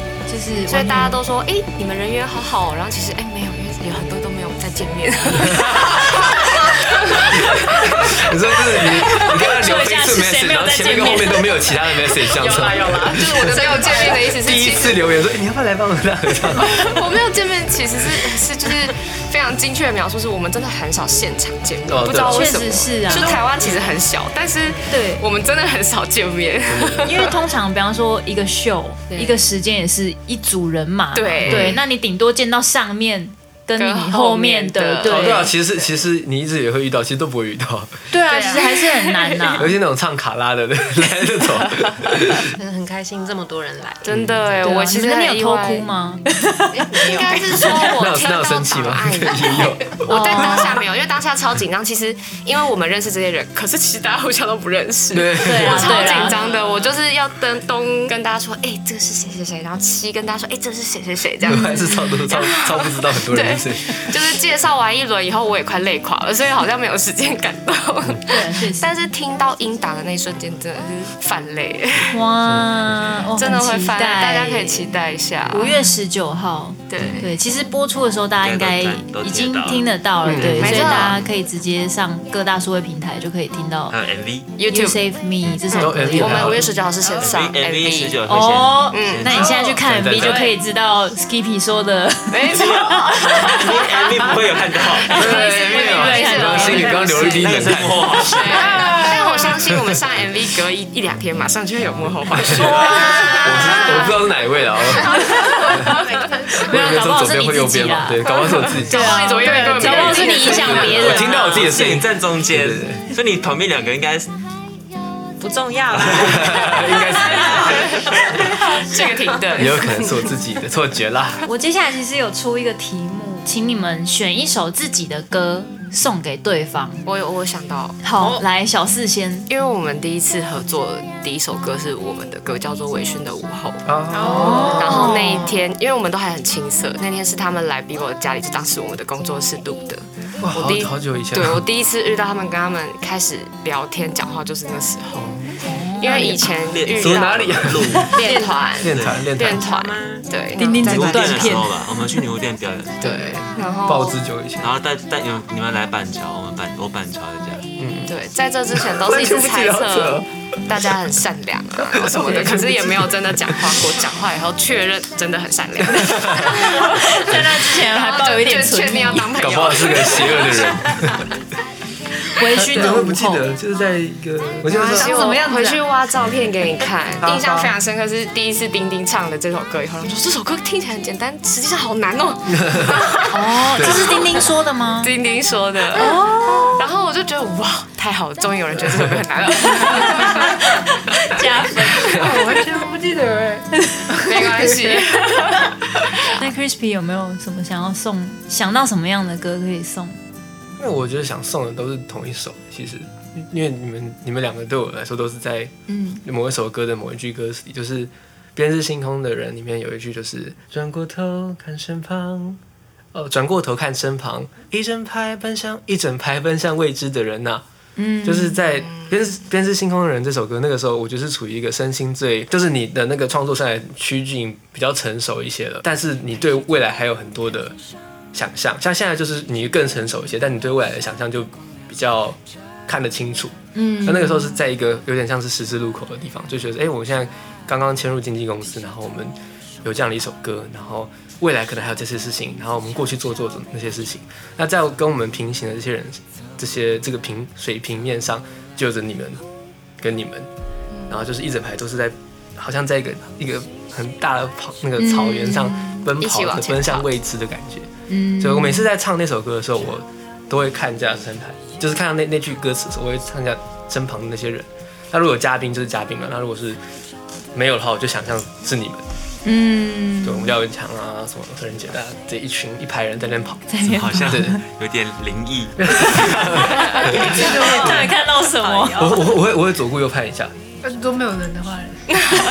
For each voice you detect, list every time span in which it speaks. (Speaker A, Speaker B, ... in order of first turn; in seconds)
Speaker A: 0.3-1.2, 9.2-11.8, 22.2-23.4, 24.9-25.2, 27.1-35.5, 38.1-39.8, 44.6-47.0, 47.5-47.8, 50.1-50.7, 55.4-56.4, 61.5-62.3, 68.3-68.9, 72.1-74.9, 75.5-84.0, 84.7-86.7, 88.3-93.6, 95.1-97.4, 102.5-104.1, 106.6-111.8, 121.5-127.1, 128.0-129.5, 134.2-135.5, 145.6-146.5, 150.6-151.9, 162.2-162.6, 166.4-169.4, 172.3-173.4, 183.3-185.1, 185.9-186.8, 189.9-192.3, 196.3-200.2, 205.9-206.2, 218.0-218.6, 233.8-234.6, 255.0-256.1, 258.1-258.9, 269.4-270.6, 273.7-274.6, 277.1-279.1
Speaker B: 0.7-8.2, 8.7-9.1, 12.1-15.0, 16.6-27.4, 29.1-29.4, 31.1-31.8, 33.8-35.7, 44.0-45.9, 47.0-72.2, 73.4-75.8, 76.9-77.3, 80.4-81.2, 84.6-85.0, 85.7-88.2, 88.9-90.5, 92.3-94.4, 95.0-97.5, 98.1-104.2, 105.6-106.1, 108.8-111.3, 118.5-119.8, 127.1-128.0, 129.5-134.0, 134.8-145.3, 146.0-151.7, 153.0-154.2, 158.1-170.8, 174.9-184.4, 185.0-190.7, 194.3-196.4, 256.2-257.1
Speaker C: 5.4-6.3, 7.2-16.8, 21.9-22.6, 26.7-27.3, 31.5-31.8, 35.0-38.1, 39.6-42.5, 44.1-44.6, 47.7-50.8, 55.1-56.1, 61.4-64.1, 72.4-73.0, 80.2-81.2, 85.8-86.7, 89.7-90.5, 95.1-98.1, 99.7-100.0, 102.4-102.8, 103.4-106.0, 106.6-109.2, 110.3-113.0, 116.1-117.9, 119.5-121.4, 133.8-135.1, 140.4-141.7, 145.2-145.5, 147.0-148.1, 148.8-149.8, 153.1-154.7, 157.8-158.1, 158.7-160.8, 161.8-163.9, 165.9-166.5, 169.3-171.3, 172.5-175.2, 182.5-183.0, 183.7-184.2, 188.8-189.2, 200.8-205.7, 206.2-212.6, 213.1-217.6, 218.2-227.8, 228.3-249.4, 250.0-250.5, 251.1-266.8, 267.5-269.1, 270.2-274.6, 275.8-278.1, 279.0-280.5
Speaker D: 12.3-14.4, 23.3-23.8, 42.5-44.2, 46.7-47.8, 56.1-57.0, 105.0-106.7, 115.4-119.9, 128.2-128.4, 134.9-135.2, 148.2-148.8, 149.6-150.3, 277.2-279.2
Speaker E: 38.3-38.7, 98.8-99.1, 109.1-110.3, 134.1-134.8, 174.7-175.9, 177.2-177.7, 192.1-195.2, 277.0-278.1, 280.8-282.1
Speaker F: 78.4-79.9, 83.9-84.5, 87.2-89.6, 92.5-95.3, 97.2-98.8, 111.3-114.3, 146.7-148.2, 148.8-149.2, 150.8-153.3, 154.6-157.7, 273.9-276.8